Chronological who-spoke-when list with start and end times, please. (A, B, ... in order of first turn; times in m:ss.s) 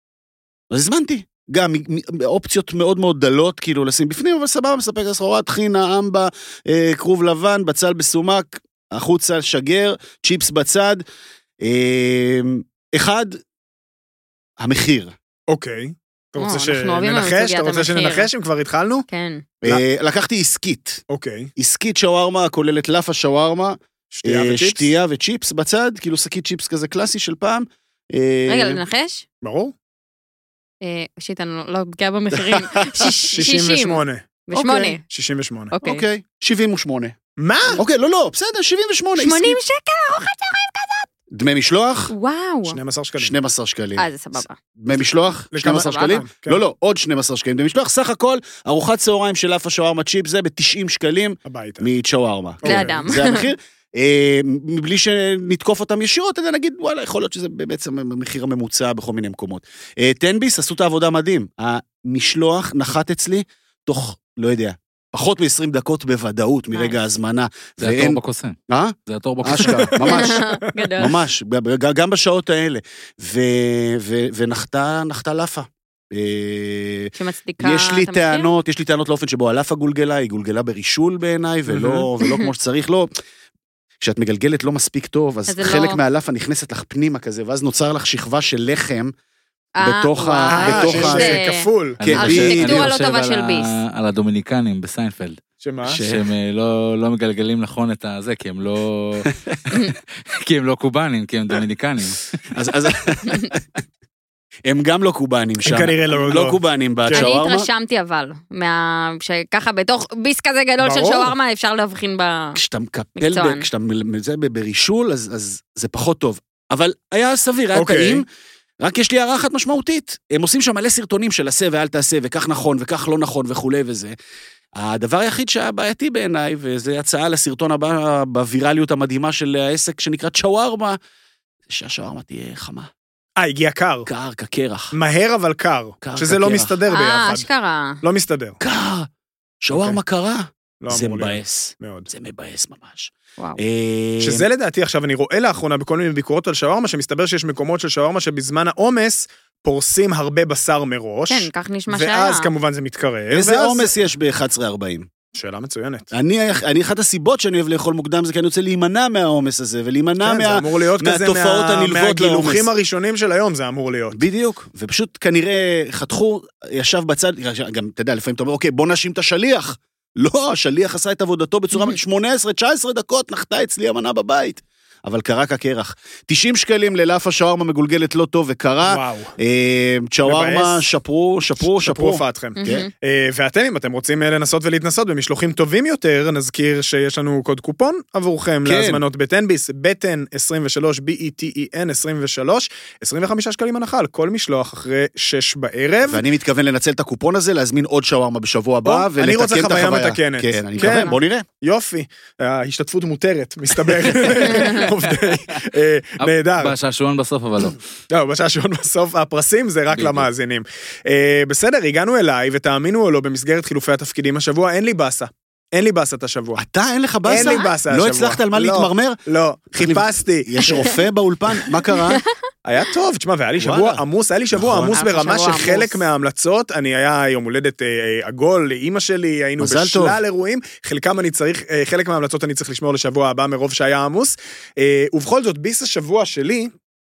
0:00.7-0:11.0 A
0:11.6-0:13.4 A
0:14.6-0:15.1 A
0:15.5-0:19.1 B
0:16.4-0:18.3 C
0:19.1-0:19.4 C
0:19.6-0:21.0 A
0:21.1-0:21.5 B
0:21.6-0:28.8 A
0:24.1-0:24.9 B
0:28.5-0:29.2 C
0:29.4-0:29.7 B
0:30.8-0:35.0 C
0:33.0-0:35.8 B
0:34.6-0:34.9 A
0:35.8-0:37.2 A
0:37.4-0:37.8 B
0:37.8-0:39.6 A
0:39.2-0:41.1 C
0:41.3-0:42.1 A
0:42.1-0:42.8 C
0:42.7-0:43.3 B
0:43.2-1:10.5 A
0:44.0-0:44.6 C
0:44.9-0:46.6 B
0:45.7-0:46.2 C
0:51.5-0:51.9 B
0:52.6-0:53.1 B
0:52.6-0:53.5 C
1:07.8-1:10.0 D
1:09.6-1:10.5 B
1:10.1-1:11.1 C
1:11.0-1:23.1 A
1:17.2-1:18.5 C
1:21.7-1:22.1 B
1:24.0-1:29.1 A
1:25.5-1:26.0 C
1:29.8-1:33.7 C
1:29.8-1:31.4 A
1:30.5-1:32.4 B
1:32.0-1:35.4 D
1:32.0-1:32.8 A
1:35.6-1:36.0 B
1:35.9-1:36.3 A
1:36.0-1:39.3 D
1:39.9-1:42.2 D
1:42.5-1:43.6 A
1:44.7-1:47.7 A
1:45.6-1:47.3 B
1:47.1-1:52.6 C
1:50.8-1:51.3 B
1:52.6-1:58.2 A
1:53.2-1:53.6 C
1:57.7-1:58.2 B
1:58.8-2:04.1 A
2:04.8-2:11.0 A
2:11.7-2:12.9 A
2:13.4-2:14.1 B
2:14.1-2:14.9 A
2:14.9-2:17.5 B
2:16.0-2:16.8 A
2:16.9-2:18.0 C
2:18.0-2:18.6 B
2:18.6-2:19.1 A
2:19.6-2:24.5 A
2:19.7-2:20.0 B
2:20.8-2:22.1 B
2:24.2-2:33.9 B
2:31.3-2:32.5 C
2:33.3-2:35.1 A
2:35.3-2:36.1 B
2:36.1-2:42.7 A
2:40.2-2:44.2 B
2:44.1-3:02.9 A
2:58.8-2:59.3 B
3:00.2-3:00.8 B
3:01.8-3:16.2 B
3:02.6-3:02.9 C
3:08.6-3:09.0 A
3:16.1-3:21.5 A
3:18.8-3:26.7 B
3:20.8-3:21.2 C
3:26.2-3:27.8 D
3:28.1-3:36.6 B
3:29.9-3:30.3 D
3:36.6-3:39.2 A
3:37.3-3:41.0 B
3:37.3-3:37.7 C
3:39.8-3:42.2 A
3:42.1-3:42.3 C
3:42.6-3:56.7 B
3:43.6-3:44.0 A
3:44.5-3:45.0 A
3:44.9-3:46.0 C
3:49.6-3:50.2 A